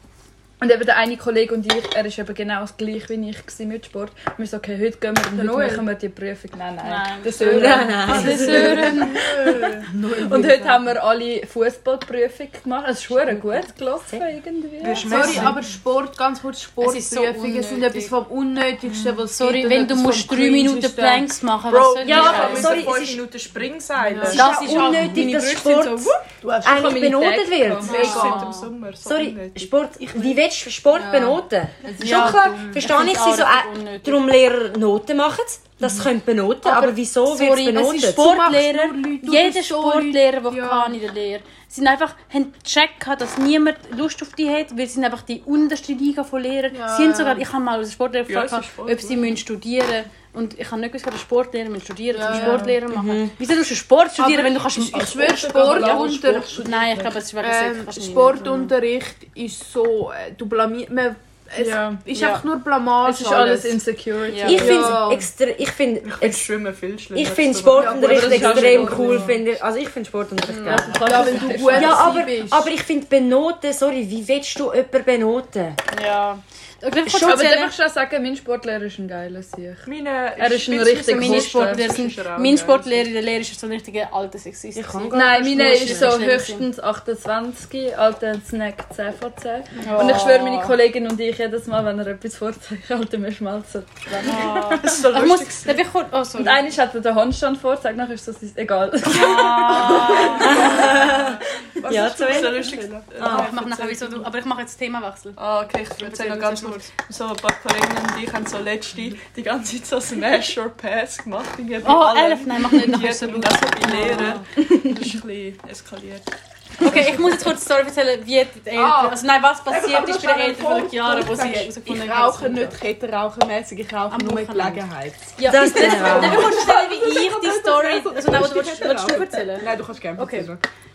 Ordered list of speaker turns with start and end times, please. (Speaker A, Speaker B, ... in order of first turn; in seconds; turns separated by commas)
Speaker A: 0.6-15.5, Speaker B: 5.3-5.9, Speaker C: 6.8-9.3, Speaker D: 7.4-9.1, Speaker B: 8.8-10.5, Speaker E: 9.2-9.9, Speaker D: 13.3-14.2, Speaker F: 14.8-15.6, Speaker B: 15.0-21.3, Speaker C: 16.8-18.1, Speaker C: 19.3-22.8, Speaker F: 21.7-24.5, Speaker D: 22.0-23.2, Speaker B: 24.2-25.3, Speaker C: 24.3-26.0, Speaker D: 24.3-28.1, Speaker E: 26.4-27.0, Speaker A: 26.6-28.0, Speaker F: 27.8-29.7, Speaker C: 27.8-28.7, Speaker B: 27.9-28.5, Speaker D: 29.0-38.5, Speaker E: 30.0-30.3, Speaker B: 30.9-31.4, Speaker B: 31.9-32.8, Speaker C: 32.0-34.2, Speaker A: 32.0-32.4, Speaker B: 36.6-41.0, Speaker C: 37.4-56.0, Speaker B: 46.7-47.4, Speaker F: 48.3-49.3, Speaker B: 52.1-52.8, Speaker A: 52.3-52.7, Speaker D: 52.9-53.3, Speaker B: 54.2-56.6, Speaker E: 54.9-57.2, Speaker C: 56.6-58.7, Speaker B: 57.4-63.8, Speaker A: 61.6-62.0, Speaker C: 62.1-62.4, Speaker A: 63.0-65.0, Speaker C: 64.3-64.8, Speaker D: 64.4-66.5, Speaker B: 64.5-65.3, Speaker F: 66.0-69.3, Speaker D: 67.1-71.2, Speaker B: 67.8-69.2, Speaker A: 67.8-69.3, Speaker C: 70.5-71.4, Speaker A: 70.7-72.2, Speaker B: 71.0-72.7, Speaker D: 71.7-75.8, Speaker C: 75.9-77.7, Speaker A: 77.1-79.9, Speaker F: 79.8-83.1, Speaker A: 80.4-82.0, Speaker C: 81.0-86.7, Speaker D: 84.7-86.2, Speaker A: 85.1-95.0, Speaker C: 89.8-90.8, Speaker C: 94.1-96.6, Speaker F: 94.3-95.8, Speaker A: 96.4-100.0, Speaker C: 99.1-101.0, Speaker F: 99.3-104.3, Speaker E: 99.9-101.0, Speaker D: 100.4-103.5, Speaker E: 101.8-103.1, Speaker C: 103.2-105.4, Speaker F: 105.3-116.3, Speaker C: 106.0-106.9, Speaker C: 111.8-114.5, Speaker A: 114.6-114.9, Speaker C: 116.8-122.8, Speaker F: 116.8-117.4, Speaker E: 118.8-119.1, Speaker E: 119.7-130.6, Speaker C: 124.1-124.8, Speaker C: 125.3-130.5, Speaker D: 125.5-126.5